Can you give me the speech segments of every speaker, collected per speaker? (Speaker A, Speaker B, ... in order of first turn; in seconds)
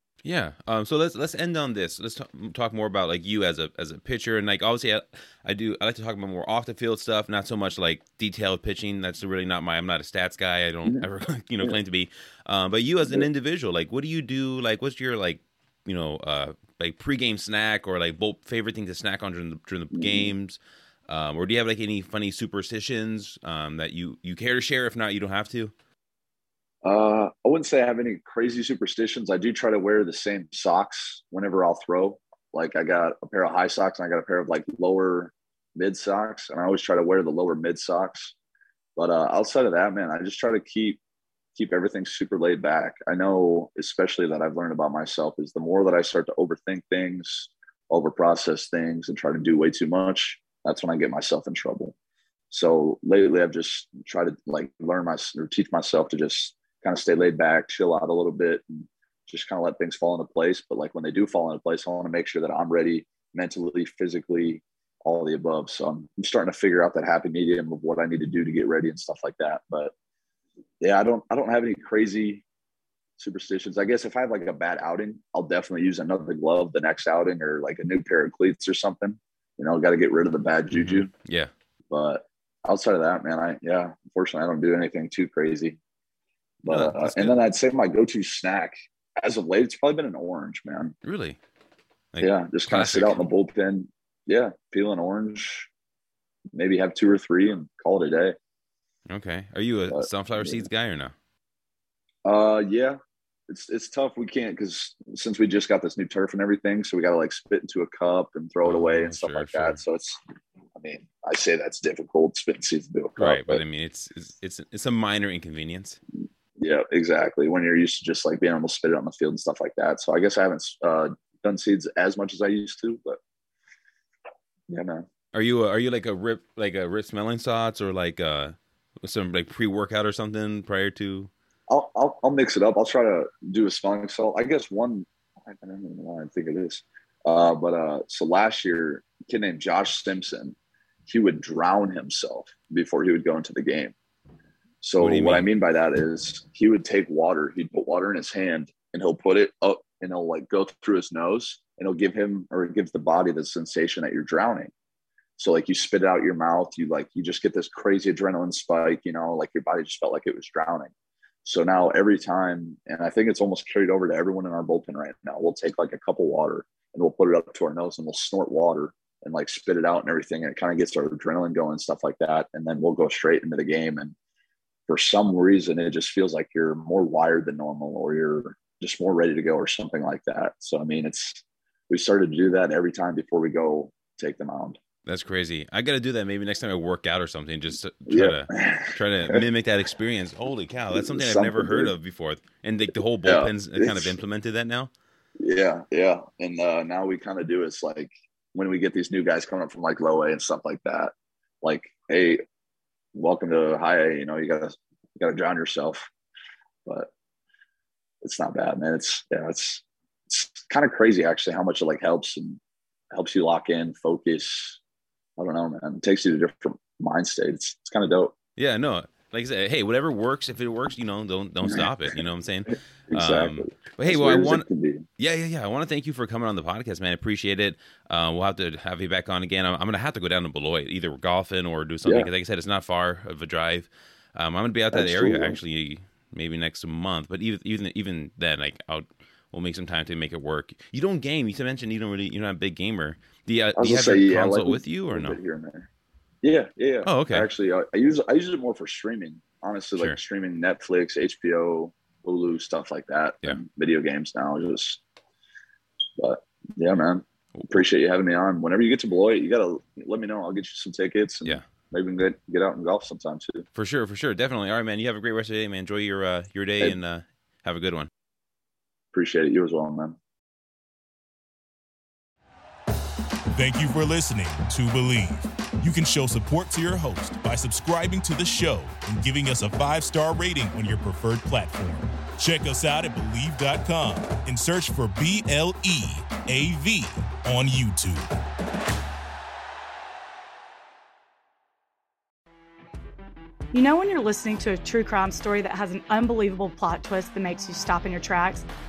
Speaker A: 0.2-25.7, 80.7-81.5, 86.7-87.4, 91.0-91.4, 92.1-93.2, 99.1-101.1, 108.6-109.8, 113.2-116.0, 125.3-131.3, 145.0-145.5, 185.1-194.9, 218.6-224.7, 225.2-245.4, 247.0-247.5, 263.8-268.1
Speaker B: 19.9-20.3, 26.8-38.3, 39.0-41.0, 41.5-51.9, 52.5-69.9, 70.8-72.4, 73.2-81.1, 81.9-85.8, 86.6-90.9, 92.2-95.7, 96.5-98.3, 99.9-100.6, 102.2-110.2, 110.7-113.6, 116.6-123.2, 124.7-125.1, 131.7-143.9, 144.8-154.7, 155.4-160.9, 161.4-174.1, 174.9-184.8, 188.1-189.4, 190.9-191.9, 193.2-194.2, 195.4-202.4, 203.1-206.1, 208.2-212.6, 213.1-214.8, 215.4-218.3, 223.1-225.1, 232.0-232.3, 234.9-235.6, 243.8-245.9, 246.4-255.0, 256.2-263.6, 269.1-270.2
Speaker C: 273.5-288.3
Speaker D: 293.7-298.6